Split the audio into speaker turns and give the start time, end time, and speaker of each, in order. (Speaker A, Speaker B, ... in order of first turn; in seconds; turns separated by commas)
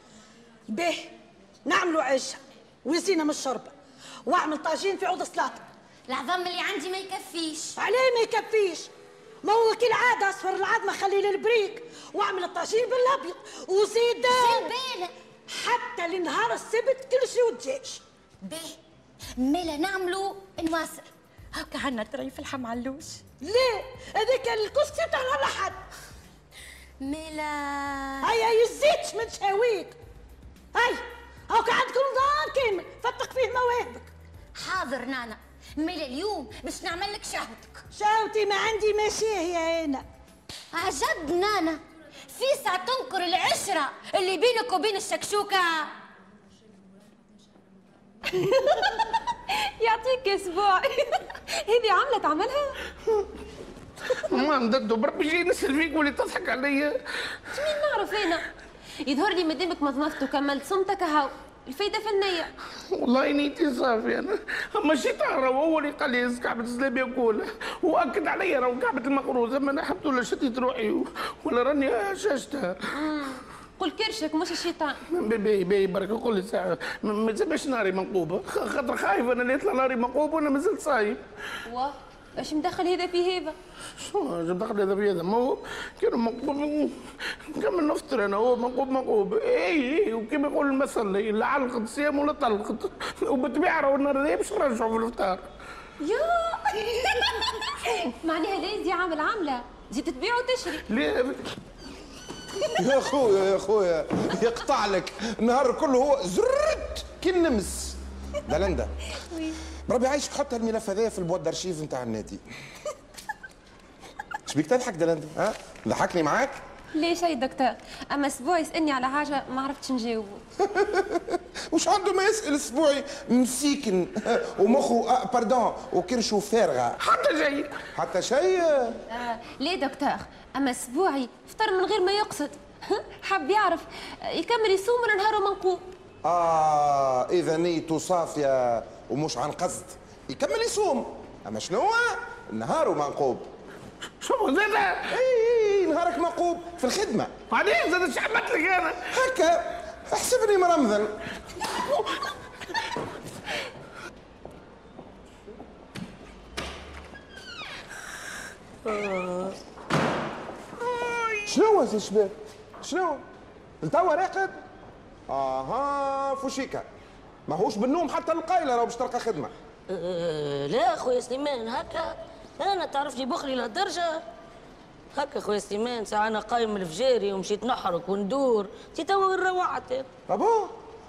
Speaker A: 0.7-1.1, Speaker A: 1.6-3.7, Speaker A: 4.2-5.6, Speaker B: 6.1-7.8, Speaker A: 7.8-8.9, Speaker A: 9.4-14.7, Speaker B: 14.3-15.1, Speaker A: 15.5-18.0, Speaker B: 18.4-18.8, Speaker B: 19.4-23.1, Speaker A: 23.4-25.8, Speaker B: 27.0-28.3, Speaker A: 28.2-30.0, Speaker A: 30.7-34.1, Speaker B: 34.5-37.8, Speaker A: 37.9-40.0, Speaker B: 40.7-41.8, Speaker B: 42.3-45.9, Speaker C: 49.8-52.8, Speaker D: 54.3-57.0, Speaker C: 57.5-58.5, Speaker C: 59.0-62.5, Speaker D: 62.9-72.8, Speaker C: 72.9-75.0, Speaker D: 75.1-81.2, Speaker C: 81.7-83.6, Speaker D: 84.0-95.4, Speaker C: 96.0-100.8, Speaker D: 100.9-101.4, Speaker E: 102.8-108.9, Speaker E: 109.9-112.4, Speaker E: 114.5-116.6, Speaker C: 116.9-120.4, Speaker E: 120.6-127.0, Speaker D: 127.0-127.7, Speaker E: 127.9-129.0, Speaker C: 129.1-135.8, Speaker E: 136.2-143.5, Speaker D: 144.2-145.1, Speaker E: 145.1-147.3, Speaker D: 147.5-149.0, Speaker E: 149.1-151.1, Speaker F: 158.8-159.6, Speaker E: 161.4-163.2, Speaker E: 163.8-164.6, Speaker E: 165.3-166.9, Speaker E: 167.5-169.5, Speaker F: 169.9-174.2, Speaker F: 175.1-180.1, Speaker E: 180.3-180.8